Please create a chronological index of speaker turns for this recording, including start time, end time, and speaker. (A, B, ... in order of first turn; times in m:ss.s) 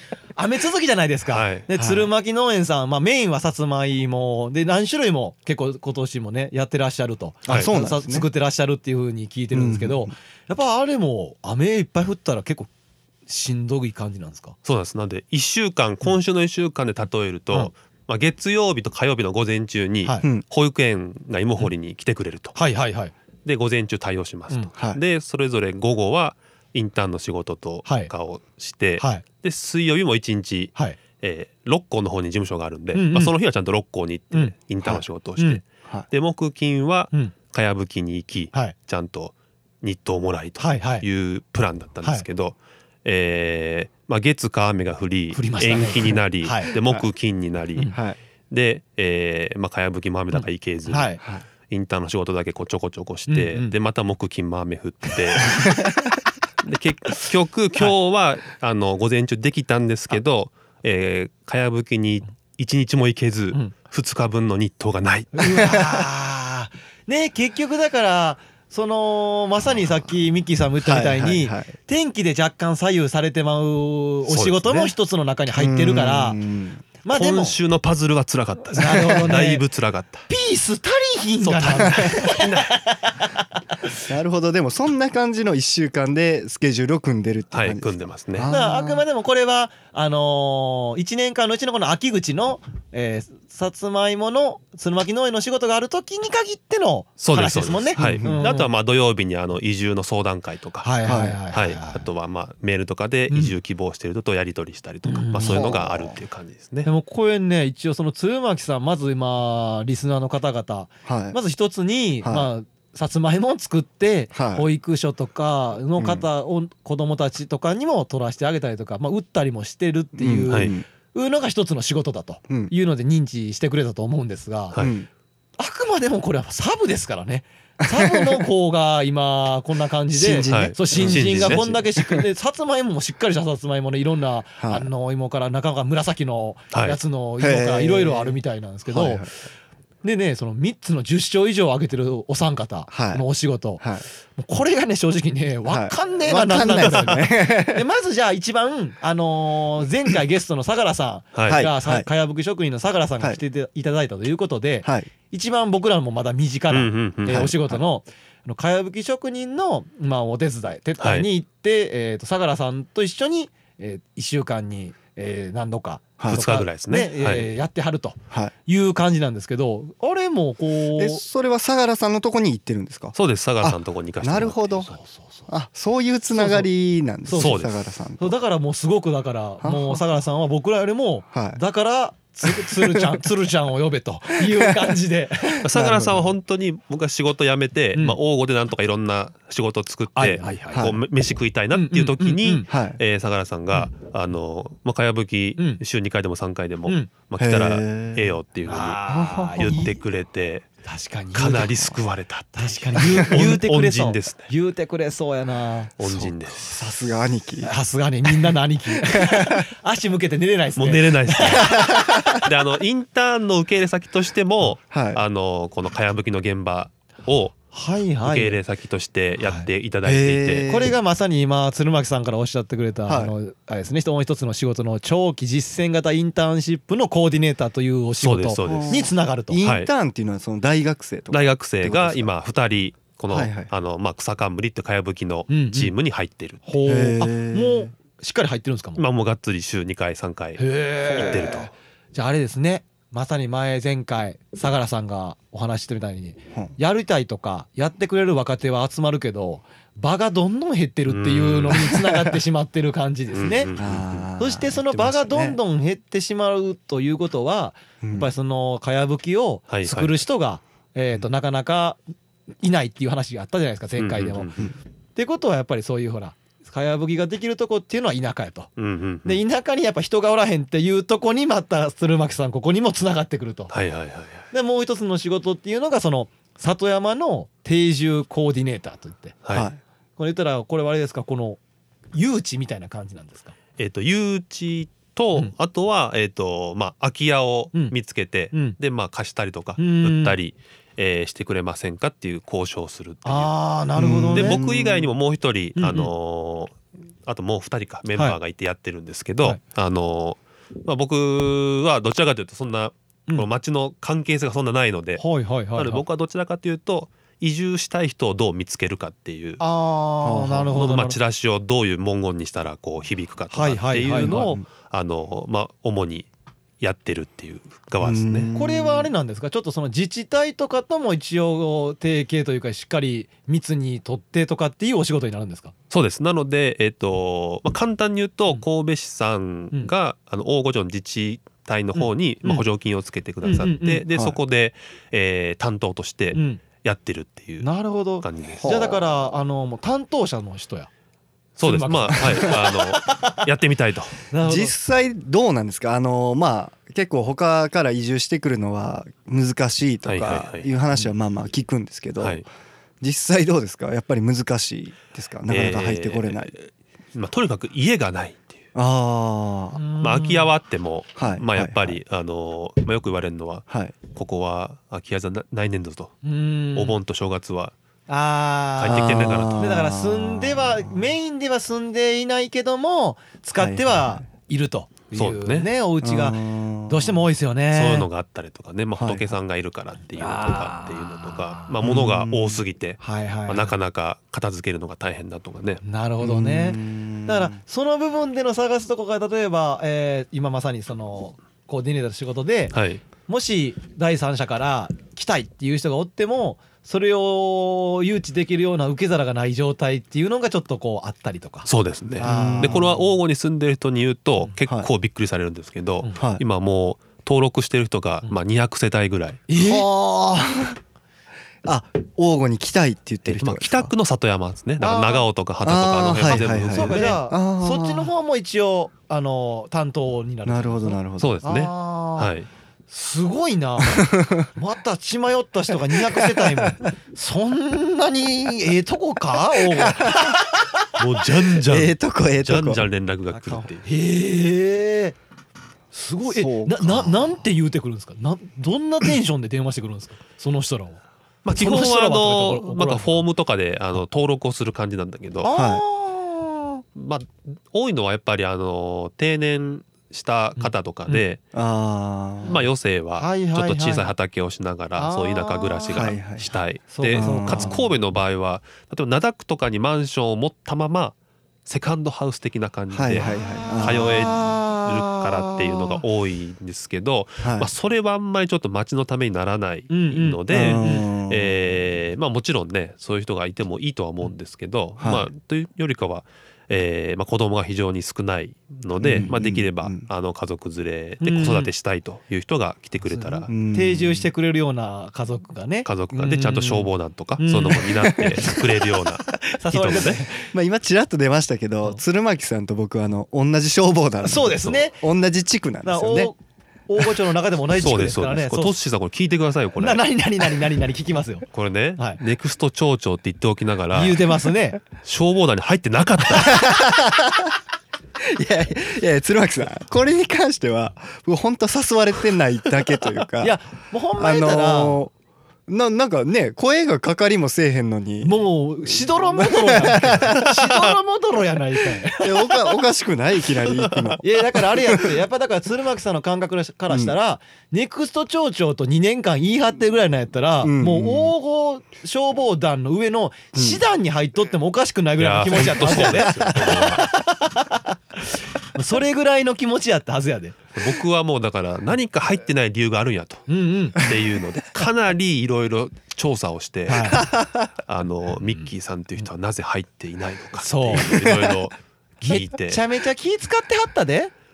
0:00.4-0:12.7 A
0:01.3-0:01.6 B
0:01.7-0:02.1 C
0:07.5-0:08.3 C
0:09.5-0:10.1 C
0:13.3-0:14.5 A
0:14.6-0:22.5 B
0:22.5-0:23.1 A
0:23.4-0:47.9 B
0:29.0-0:29.2 A
0:32.9-0:33.3 A
0:34.3-0:35.6 A
0:40.6-0:41.0 A
0:45.3-0:46.8 A
0:48.5-0:55.8 B
0:50.3-0:51.2 A
0:53.3-0:53.7 A
0:56.6-1:05.7 B
1:05.4-1:16.4 A
1:10.8-1:11.7 C
1:14.3-1:14.9 B
1:15.5-1:16.8 C
1:17.0-1:17.5 A
1:17.1-1:20.2 B
1:18.7-1:19.6 A
1:20.3-1:23.4 A
1:21.4-1:22.7 B
1:24.0-1:29.0 C
1:27.5-1:28.5 B
1:28.5-1:38.7 A
1:37.2-1:40.9 B
1:38.0-1:38.4 C
1:40.8-1:42.0 A
1:41.0-1:41.4 C
1:41.5-1:46.9 B
1:45.0-1:46.0 A
1:45.4-1:46.0 C
1:46.8-2:04.8 A
1:51.0-1:51.4 C
1:52.2-1:52.5 C
1:54.3-1:54.7 C
1:56.0-1:56.2 C
2:00.2-2:00.8 C
2:00.5-2:00.7 B
2:04.8-2:05.1 C
2:05.6-2:19.3 A
2:07.8-2:08.4 C
2:10.2-2:12.3 C
2:10.4-2:11.7 B
2:14.6-2:14.9 C
2:16.7-2:17.0 B
2:17.4-2:19.3 C
2:20.0-2:23.8 A
2:22.9-2:23.2 C
2:23.8-2:24.0 C
2:24.3-2:51.2 A
2:25.7-2:27.8 C
2:31.3-2:31.7 B
2:31.5-2:32.1 C
2:34.8-2:35.1 C
2:36.7-2:37.5 B
2:37.3-2:37.8 C
2:41.0-2:41.3 B
2:46.2-2:46.4 C
2:46.3-2:47.5 B
2:51.0-2:54.9 C
2:53.1-2:54.9 B
2:54.9-2:55.5 A
2:55.5-2:58.3 C
2:56.3-2:56.7 A
2:57.2-2:57.6 A
2:57.3-2:57.8 B
2:58.2-3:05.6 A
2:59.6-3:00.0 C
3:01.3-3:01.6 C
3:02.4-3:03.1 C
3:04.4-3:04.9 C
3:05.6-3:19.0 B
3:05.6-3:06.3 C
3:10.1-3:10.9 A
3:10.7-3:11.0 C
3:11.7-3:12.7 A
3:12.7-3:13.0 C
3:17.4-3:18.4 C
3:18.7-3:20.0 A
3:19.1-3:19.8 C
3:19.5-3:20.7 B
3:20.8-3:21.9 A
3:21.3-3:24.5 B
3:22.5-3:25.9 A
3:26.0-3:26.7 B
3:26.1-3:27.7 C
3:27.6-3:31.8 A
3:29.0-3:29.7 C
3:30.8-3:37.6 B
3:31.6-3:32.4 C
3:34.9-3:35.2 C
3:37.7-3:38.6 A
3:38.2-3:40.7 B
3:40.0-3:40.9 C
3:40.7-3:49.6 A
3:43.1-3:43.3 C
3:48.2-3:49.1 B
3:48.6-3:52.3 C
3:49.6-3:49.9 B
3:51.3-3:56.6 B
3:53.3-3:53.7 C
3:55.5-3:55.9 A
3:56.6-3:59.0 A
3:56.8-3:57.9 C
3:59.0-4:01.7 B
4:00.6-4:13.7 A
4:11.1-4:11.9 B
4:12.1-4:12.3 C
4:13.3-4:14.2 B
4:13.8-4:15.6 C
4:14.4-4:22.0 A
4:18.0-4:18.3 C
4:19.7-4:20.2 B
4:22.6-4:24.6 A
4:24.0-4:24.6 B
4:25.2-4:28.7 A
4:28.8-4:29.4 B
4:29.2-4:33.7 A
4:33.7-4:34.4 B
4:34.5-4:39.4 A
4:39.4-4:39.7 B
4:39.5-4:39.8 C
4:40.2-4:41.6 A
4:42.1-4:43.5 A
4:43.8-4:53.5 B
4:48.5-4:48.8 A
4:49.8-4:50.4 A
4:53.2-4:54.6 A
4:54.0-4:55.1 C
4:54.3-5:05.2 B
4:55.8-4:56.1 A
5:05.2-5:06.0 A
5:05.7-5:09.6 B
5:09.6-5:11.2 A
5:10.2-5:10.8 C
5:10.7-5:16.3 B
5:13.5-5:14.6 A
5:14.3-5:14.6 C
5:16.8-5:18.5 B
5:18.0-5:19.1 C
5:18.5-5:25.7 A
5:25.9-5:37.7 B
5:31.9-5:32.6 A
5:33.4-5:34.0 A
5:34.1-5:34.4 C
5:36.3-5:36.6 A
5:37.6-5:40.9 A
5:38.2-5:38.9 B
5:38.6-5:39.0 C
5:41.6-5:44.2 B
5:41.6-5:43.4 A
5:44.3-5:44.7 A
5:44.4-5:52.4 C
5:50.0-5:50.7 B
5:52.2-5:52.4 B
5:53.0-5:56.5 C
5:55.5-5:58.6 B
5:58.7-5:59.8 C
5:59.7-6:00.5 A
6:00.0-6:06.2 B
6:01.2-6:02.0 C
6:03.7-6:03.9 C
6:06.2-6:07.0 A
6:06.7-6:07.7 B
6:08.1-6:18.1 A
6:08.8-6:09.6 B
6:08.8-6:10.9 C
6:13.6-6:14.2 C
6:15.1-6:15.7 B
6:16.0-6:17.2 C
6:17.7-6:25.8 B
6:19.0-6:19.3 C
6:20.1-6:21.7 A
6:21.8-6:22.6 C
6:23.0-6:23.7 A
6:25.8-6:41.7 A
6:26.2-6:27.6 C
6:32.7-6:33.0 B
6:41.6-6:49.4 B
6:42.2-6:42.9 C
6:42.2-6:43.0 A
6:49.5-6:49.9 A
6:49.5-6:50.8 C
6:51.6-6:53.9 C
6:53.2-6:57.2 B
6:54.8-6:55.2 A
6:55.6-6:58.1 C
6:56.3-7:02.3 A
7:00.4-7:01.4 C
7:01.2-7:02.5 B
7:02.9-7:10.6 A
7:03.9-7:04.5 C
7:06.0-7:06.7 C
7:09.7-7:10.4 C
7:11.0-7:13.8 B
7:11.6-7:12.9 C
7:13.3-7:15.2 A
7:15.9-7:21.0 A
7:16.2-7:17.3 C
7:21.4-7:25.5 B
7:21.5-7:23.2 A
7:25.4-7:26.8 A
7:25.5-7:25.8 C
7:26.9-7:31.4 B
7:30.6-7:31.2 A
7:31.5-7:32.7 C
7:32.4-7:41.1 B
7:33.2-7:34.1 A
7:35.0-7:37.8 A
7:35.9-7:36.4 C
7:37.1-7:37.8 C
7:41.6-8:03.5 B
7:42.9-7:44.3 C
7:43.7-7:46.0 A
7:47.4-7:47.7 C
7:49.9-7:51.1 A
7:50.5-7:51.6 C
7:55.0-7:55.3 C
7:59.0-8:00.0 C
8:01.2-8:01.7 A
8:03.0-8:08.6 A
8:03.5-8:04.3 C
8:05.8-8:10.2 B
8:09.3-8:10.5 A
8:10.4-8:16.3 C
8:14.2-8:15.0 A
8:15.8-8:18.7 A
8:17.7-8:20.0 B
8:19.8-8:21.4 A
8:21.5-8:24.4 B
8:23.9-8:24.8 A
8:25.0-8:26.7 B
8:26.4-8:27.5 C
8:28.2-8:33.6 C
8:33.4-8:35.0 A
8:34.2-8:35.1 C
8:35.7-8:38.4 C
8:38.2-8:42.7 A
8:38.9-8:40.5 C
8:42.1-8:45.1 C
8:44.2-9:00.7 A
8:50.6-8:51.3 C
8:53.5-8:53.8 C
8:55.2-8:57.0 B
8:56.2-8:57.0 C
9:00.8-9:07.3 B
9:03.5-9:04.0 A
9:06.9-9:07.2 A
9:07.2-9:07.5 C
9:07.8-9:12.8 B
9:10.6-9:11.2 A
9:11.1-9:11.6 C
9:12.2-9:14.3 A